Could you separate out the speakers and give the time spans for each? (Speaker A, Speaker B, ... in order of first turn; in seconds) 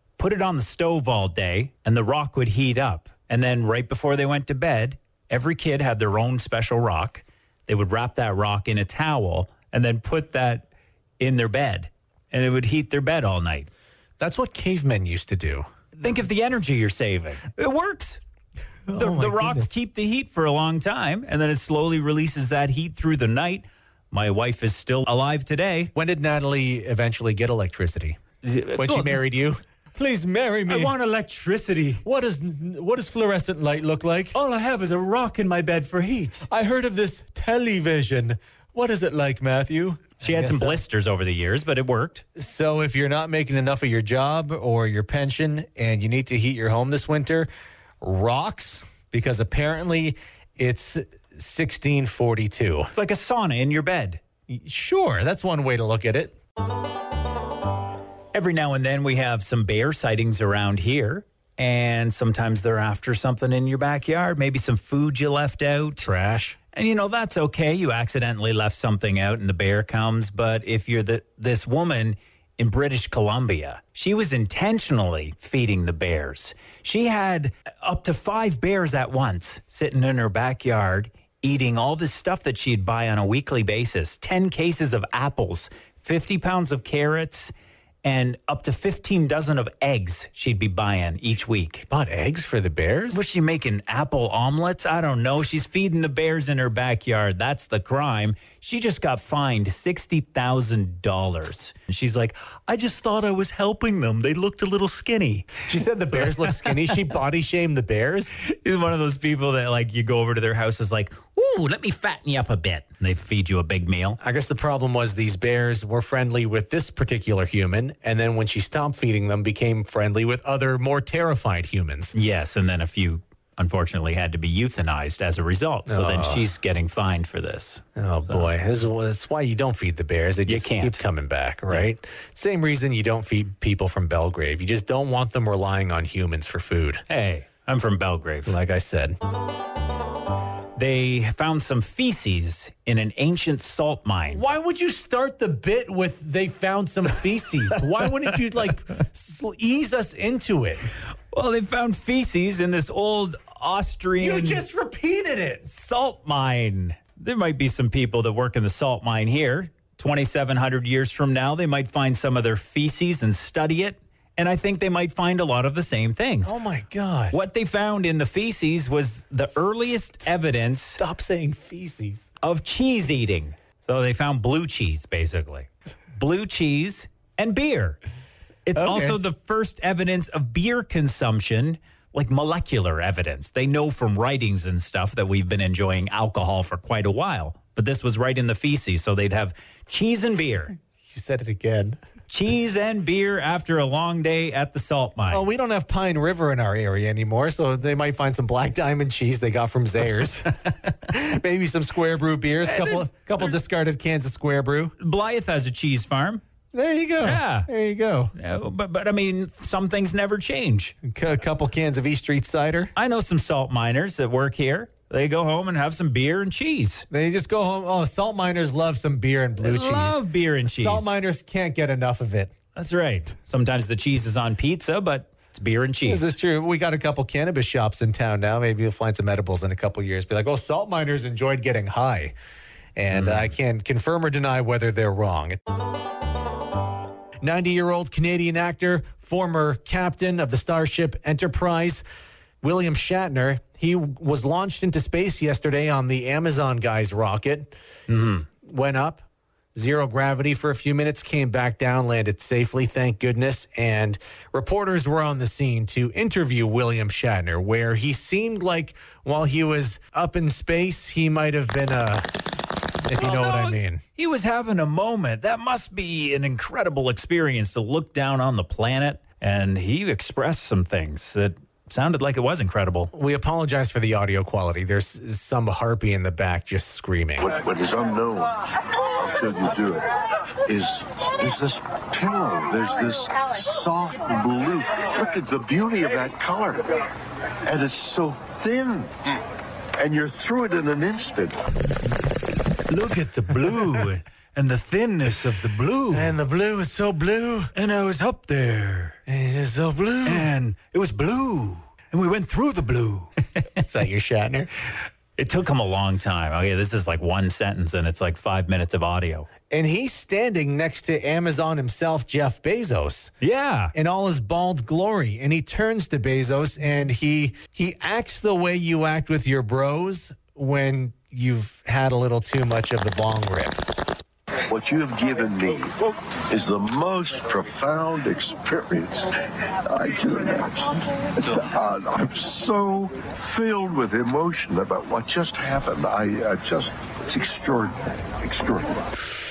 Speaker A: 0.2-10.7, 11.2-13.7, 16.0-18.2, 18.9-25.9, 28.4-29.2, 30.7-32.0, 34.3-36.5, 40.2-42.2, 52.9-54.2, 58.3-66.1, 66.7-87.5, 88.0-91.9, 93.1-106.7, 108.4-114.2, 122.1-128.4, 130.5-131.0, 137.1-138.6, 140.8-144.4, 151.3-154.6, 155.7-166.6, 167.3-171.0, 172.4-178.0, 178.7-190.8, 192.3-195.4, 202.6-203.5, 205.0-206.4, 207.2-207.7, 208.3-211.0, 213.0-217.1, 219.6-221.1, 222.8-226.3, 233.1-233.5, 248.1-248.5, 263.2-273.1, 292.9-296.4, 297.7-299.2, 300.2-303.8, 305.4-309.5, 313.4-313.9
Speaker B: 14.2-15.7, 18.9-19.7, 25.9-28.2, 28.8-30.9, 32.0-34.4, 36.5-40.8, 42.4-47.5, 48.0-52.9, 54.5-56.4, 66.0-66.6, 91.9-93.2, 105.7-108.3, 114.2-122.1, 125.9-126.5, 128.0-137.0, 138.5-139.2, 144.3-150.9, 154.2-155.7, 166.4-167.4, 171.0-172.3, 178.8-179.2, 191.1-192.0, 195.3-204.9, 206.7-208.3, 211.0-212.9, 217.1-222.5, 226.1-232.3, 233.0-235.6, 237.4-242.0, 242.6-247.7, 248.6-249.2, 249.8-262.3, 263.1-264.0, 273.1-277.5, 296.1-297.7, 299.3-300.5, 303.8-304.7, 309.7-313.3, 313.9-323.8
Speaker C: 277.4-278.6, 279.2-280.1, 280.7-287.0, 287.6-289.4, 290.0-291.6, 324.7-329.3, 329.9-339.0